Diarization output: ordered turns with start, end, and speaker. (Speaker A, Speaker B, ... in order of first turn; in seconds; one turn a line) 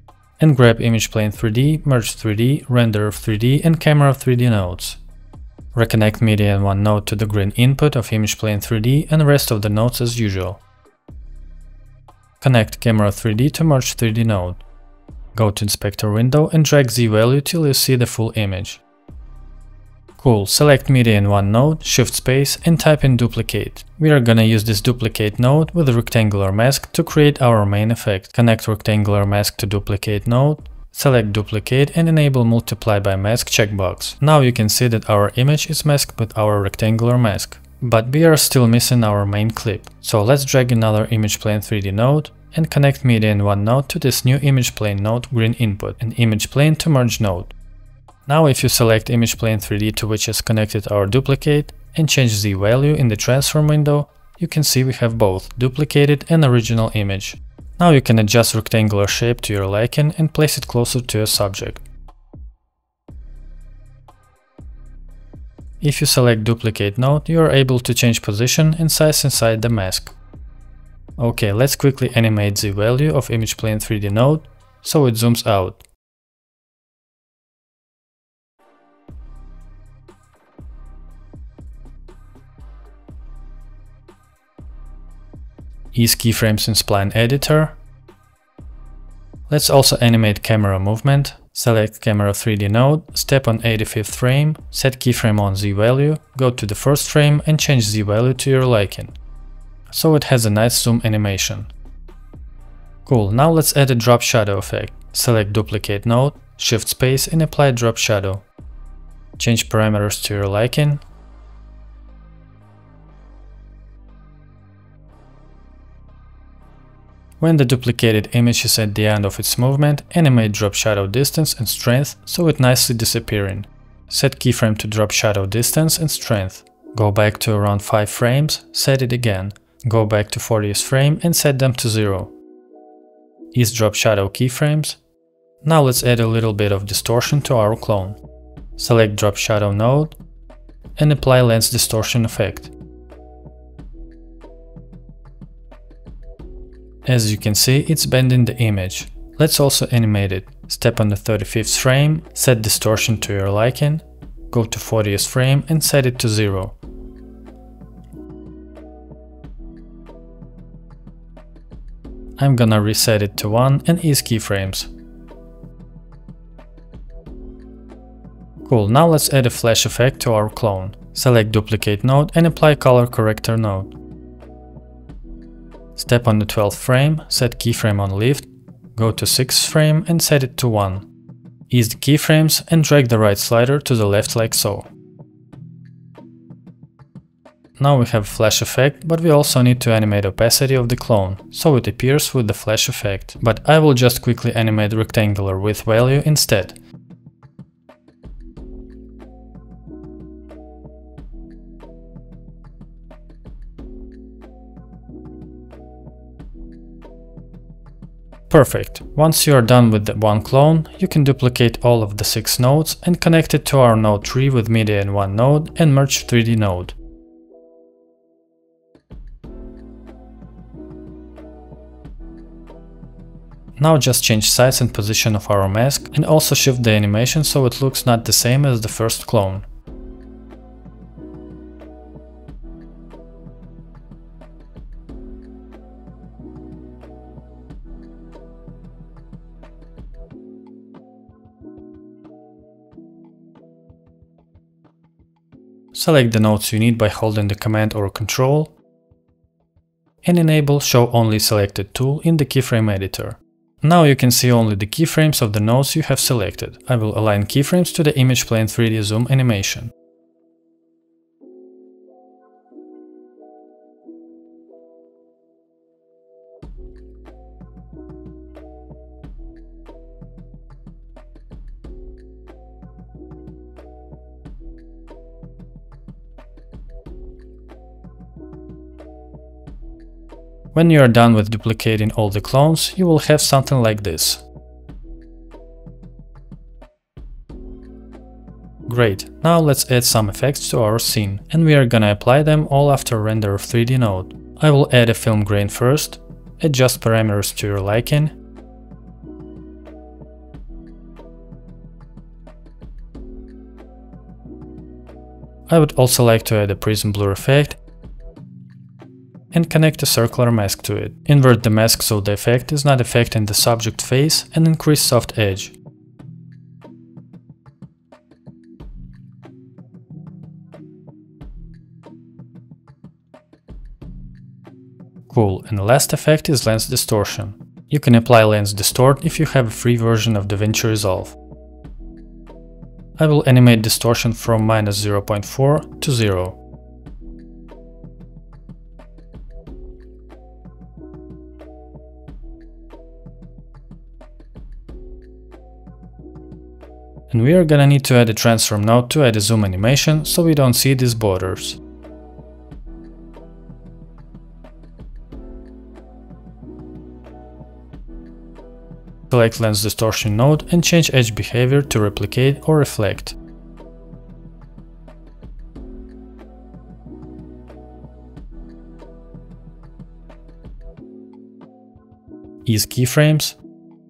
Speaker A: 0.4-5.0
Speaker A: 5.7-10.6
Speaker A: 12.4-14.6
Speaker A: 15.3-18.8
Speaker A: 20.2-47.5
Speaker A: 48.3-61.8
Speaker A: 65.8-70.2
Speaker A: 71.2-75.8
Speaker A: 85.9-87.8
Speaker A: 89.5-99.1
Speaker A: 99.9-101.7
Speaker A: 103.0-108.5
Speaker A: 109.4-111.0
Speaker A: 117.4-132.3
Speaker A: 133.5-135.0
Speaker A: 135.6-138.2
Speaker A: 138.8-140.2
Speaker A: 141.0-142.7
Speaker A: 147.1-156.8
Speaker A: 162.4-164.9
Speaker A: 168.6-173.9
Speaker A: 176.0-181.1
Speaker A: 181.7-184.9
Speaker A: 187.8-196.8
Speaker A: 208.5-217.0
Speaker A: 223.8-229.7
Speaker A: 245.9-248.8
Speaker A: 250.2-259.9
Speaker A: 280.7-284.4
Speaker A: 288.9-298.4
Speaker A: 305.7-307.8
Speaker A: 309.5-315.8
Speaker A: 325.3-331.4
Speaker A: 333.2-336.6
Speaker A: 347.3-351.8
Speaker A: 359.3-363.4
Speaker A: 372.6-373.6